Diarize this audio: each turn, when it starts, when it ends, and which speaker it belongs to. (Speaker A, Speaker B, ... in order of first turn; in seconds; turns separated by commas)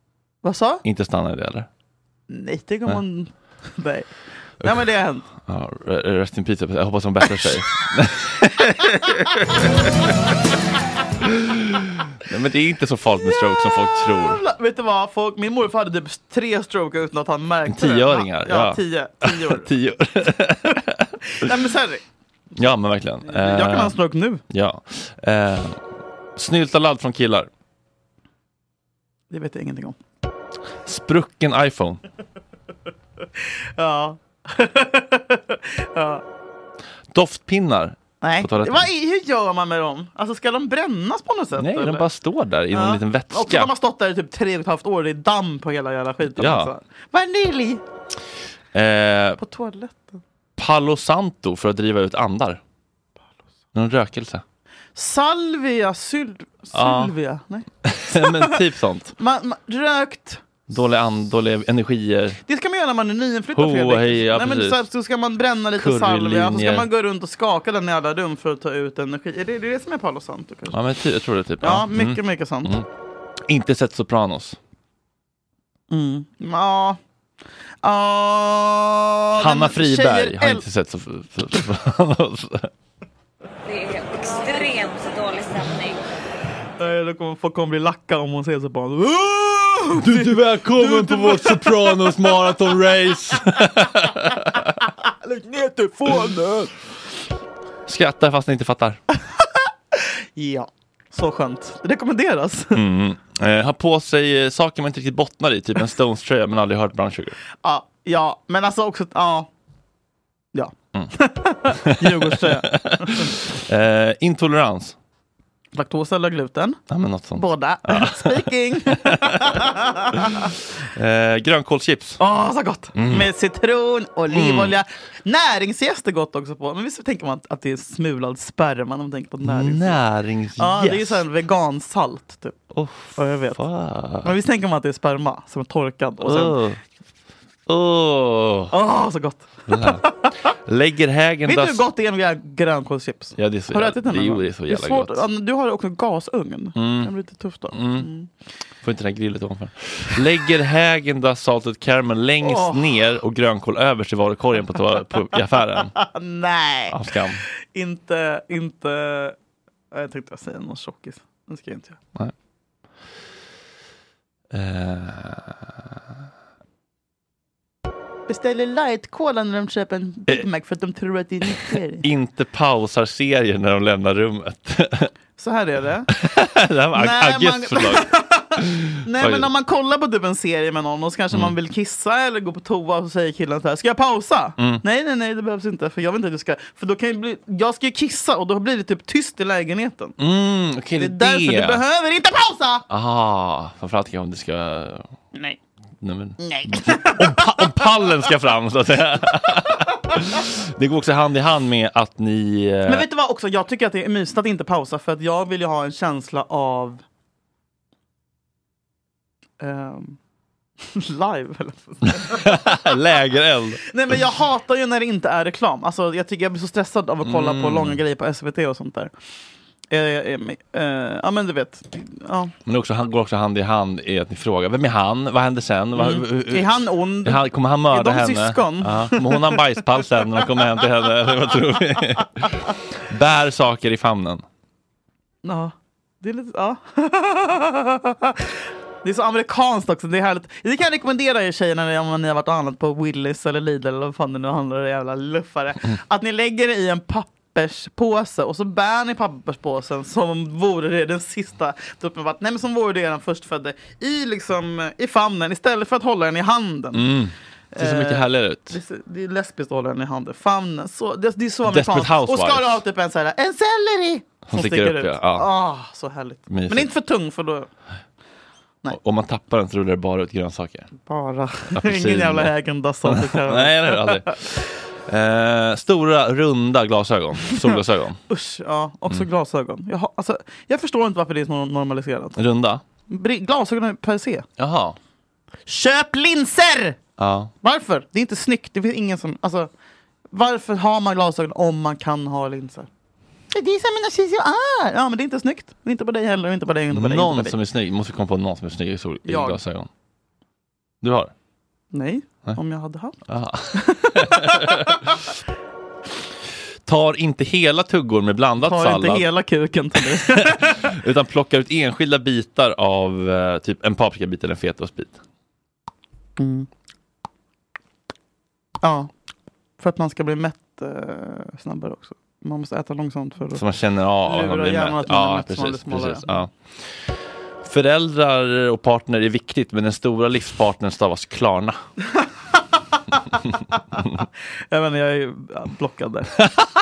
Speaker A: 0.4-0.8, Speaker B: 0.8-1.7, Speaker A: 2.3-5.2, Speaker B: 5.4-9.7, Speaker B: 11.2-14.4, Speaker A: 13.3-19.7, Speaker B: 17.7-21.4, Speaker A: 21.3-22.0, Speaker B: 22.6-23.9, Speaker A: 23.2-24.4, Speaker B: 24.5-25.8, Speaker B: 26.4-27.5, Speaker A: 29.3-30.0, Speaker B: 30.9-32.0, Speaker A: 33.8-36.2, Speaker B: 37.1-38.9, Speaker A: 38.2-42.1, Speaker B: 41.6-43.7, Speaker A: 42.7-47.8, Speaker B: 46.4-46.7, Speaker B: 48.7-49.4, Speaker A: 49.4-50.2, Speaker B: 50.6-52.6, Speaker B: 53.7-54.4, Speaker A: 54.9-58.5, Speaker B: 56.7-57.1, Speaker B: 57.8-59.1, Speaker A: 59.2-60.4, Speaker B: 60.7-62.4, Speaker A: 62.5-70.8, Speaker B: 63.5-64.8, Speaker B: 65.8-66.9, Speaker B: 70.7-72.9, Speaker A: 71.6-72.7, Speaker B: 73.5-74.6, Speaker A: 75.9-77.0, Speaker A: 77.8-80.6, Speaker B: 79.4-82.7, Speaker C: 83.7-86.0, Speaker A: 86.8-92.1, Speaker B: 90.0-94.6, Speaker A: 95.0-96.7, Speaker B: 97.9-99.0, Speaker A: 99.9-102.8, Speaker B: 102.7-107.4, Speaker A: 107.6-109.5, Speaker A: 110.5-113.3, Speaker B: 111.8-114.9, Speaker A: 115.7-116.8, Speaker B: 116.9-118.4, Speaker A: 117.3-120.5, Speaker B: 119.0-119.6, Speaker B: 120.9-122.2, Speaker A: 122.2-130.0, Speaker B: 122.9-123.3, Speaker B: 124.3-124.8, Speaker B: 129.4-131.2, Speaker A: 130.6-132.6, Speaker B: 132.7-134.3, Speaker A: 133.2-133.6, Speaker A: 134.2-136.6, Speaker B: 136.2-136.8, Speaker B: 137.7-138.7, Speaker A: 138.7-140.3, Speaker B: 139.7-141.8, Speaker A: 141.4-148.3, Speaker B: 143.4-145.2, Speaker B: 146.8-147.1, Speaker B: 147.7-148.1, Speaker B: 148.8-155.9, Speaker A: 152.4-153.0, Speaker A: 155.8-156.9, Speaker B: 156.9-157.4, Speaker A: 157.7-159.3, Speaker A: 159.9-162.0, Speaker B: 164.5-165.7, Speaker A: 168.3-172.1, Speaker B: 171.5-175.1, Speaker A: 175.4-176.1, Speaker B: 176.2-178.1, Speaker A: 176.9-190.2, Speaker B: 178.8-179.5, Speaker B: 184.6-184.8, Speaker B: 190.2-191.8, Speaker A: 191.0-192.8, Speaker B: 192.9-195.1, Speaker B: 196.0-203.1, Speaker A: 196.4-197.8, Speaker A: 202.8-207.0, Speaker A: 209.6-210.2, Speaker A: 210.9-212.9, Speaker B: 212.2-213.9, Speaker A: 213.9-219.1, Speaker B: 217.2-218.0, Speaker A: 219.9-222.5, Speaker B: 222.7-232.6, Speaker A: 225.9-229.6, Speaker B: 233.1-234.4, Speaker A: 235.4-257.0, Speaker B: 256.9-258.8, Speaker A: 257.7-267.7, Speaker B: 261.6-262.8, Speaker B: 264.5-265.5, Speaker B: 266.5-266.9, Speaker B: 268.9-270.9, Speaker A: 271.0-274.4, Speaker B: 271.7-272.5, Speaker B: 273.0-278.2, Speaker A: 278.3-282.4, Speaker B: 282.4-282.8, Speaker A: 283.1-284.4, Speaker B: 284.6-284.9, Speaker A: 285.7-287.0, Speaker B: 287.2-287.5, Speaker A: 287.6-289.7, Speaker A: 290.3-292.9, Speaker A: 293.5-297.6, Speaker B: 296.9-299.9, Speaker A: 299.2-299.6, Speaker B: 301.0-301.3, Speaker A: 301.9-303.2, Speaker B: 303.3-305.0, Speaker A: 303.7-305.0, Speaker B: 306.9-309.2, Speaker A: 308.6-310.9, Speaker B: 310.0-315.2, Speaker A: 316.4-316.7, Speaker A: 318.8-319.1, Speaker A: 319.8-323.6, Speaker B: 323.6-327.1, Speaker A: 324.2-326.4, Speaker B: 327.6-331.8, Speaker A: 332.2-333.8, Speaker A: 334.7-336.4